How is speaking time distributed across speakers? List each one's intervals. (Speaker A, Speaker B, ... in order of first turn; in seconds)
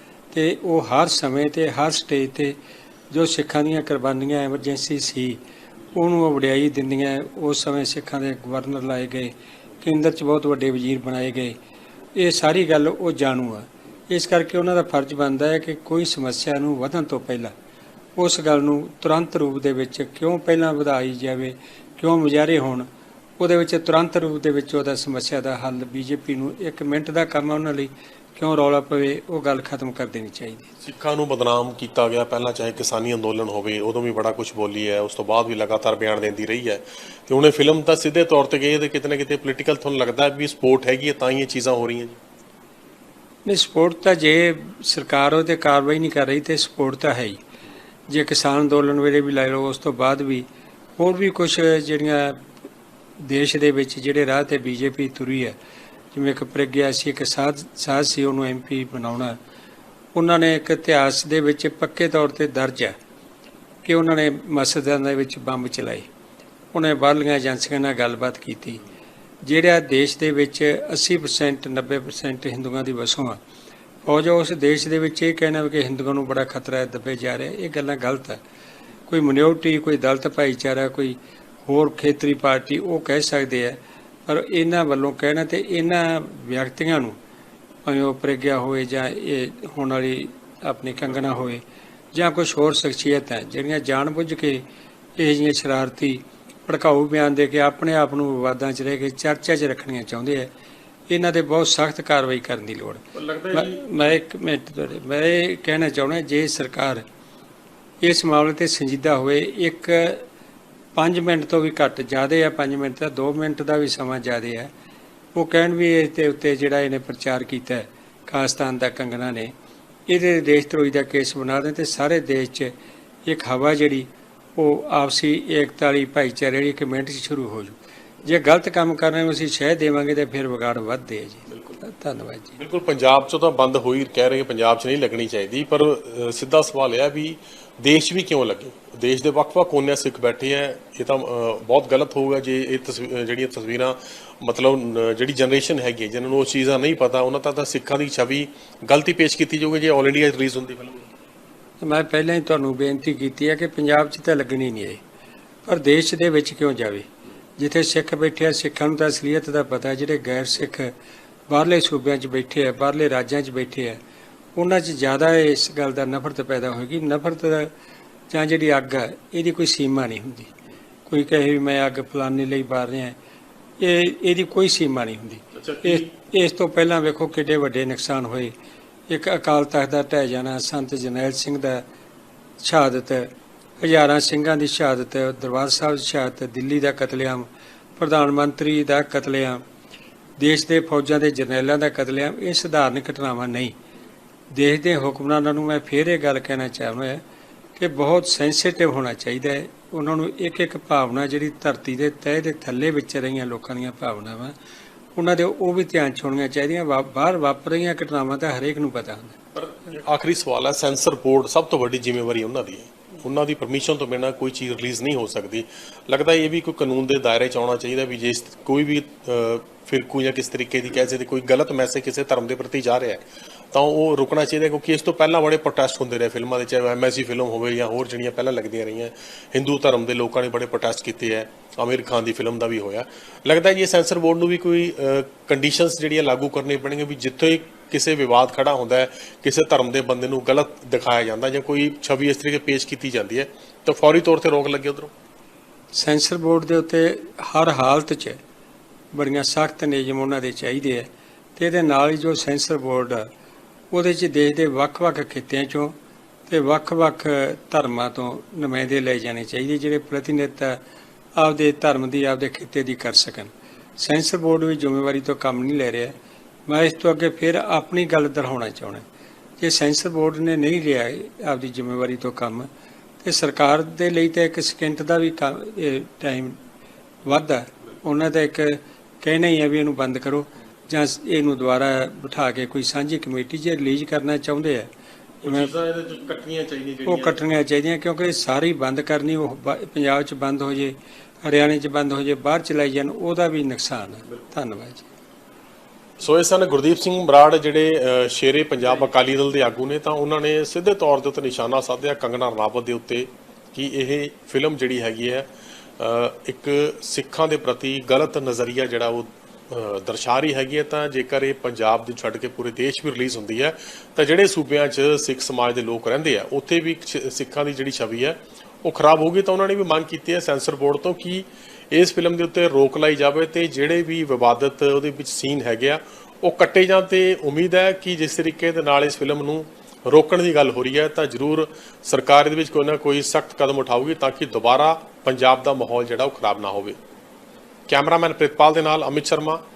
Speaker A: 0.3-2.6, 3.1-5.4, 5.9-11.6, 12.2-17.5, 18.2-22.9, 23.4-30.7, 43.5-47.4, 48.1-52.5, 53.2-55.6, 56.1-59.4, 60.1-63.0, 63.9-66.1, 66.7-68.8, 69.4-73.4, 74.0-78.4, 79.1-87.2, 87.8-91.6, 92.1-94.6, 95.2-100.5, 101.1-107.0, 108.0-110.2, 111.0-114.7, 115.3-119.5, 120.1-122.7, 123.3-132.6, 151.8-155.0, 155.7-157.1, 157.6-160.9, 161.5-164.0, 164.6-167.7, 168.3-170.5, 171.1-173.2, 173.8-178.5, 179.1-181.8, 182.6-189.6, 190.4-193.7, 194.5-197.2, 197.8-204.6, 205.2-209.4, 245.9-248.4, 249.1-253.3, 253.9-256.0, 256.5-260.8, 261.4-266.1, 266.7-269.0, 269.6-272.7, 273.2-276.6, 277.2-284.9, 285.4-285.7, 287.1-295.1
Speaker B: 30.8-42.2, 103.1-104.1, 131.5-131.8, 132.6-151.1, 175.5-176.1, 209.6-245.1, 285.4-287.4, 296.2-337.0, 337.9-339.6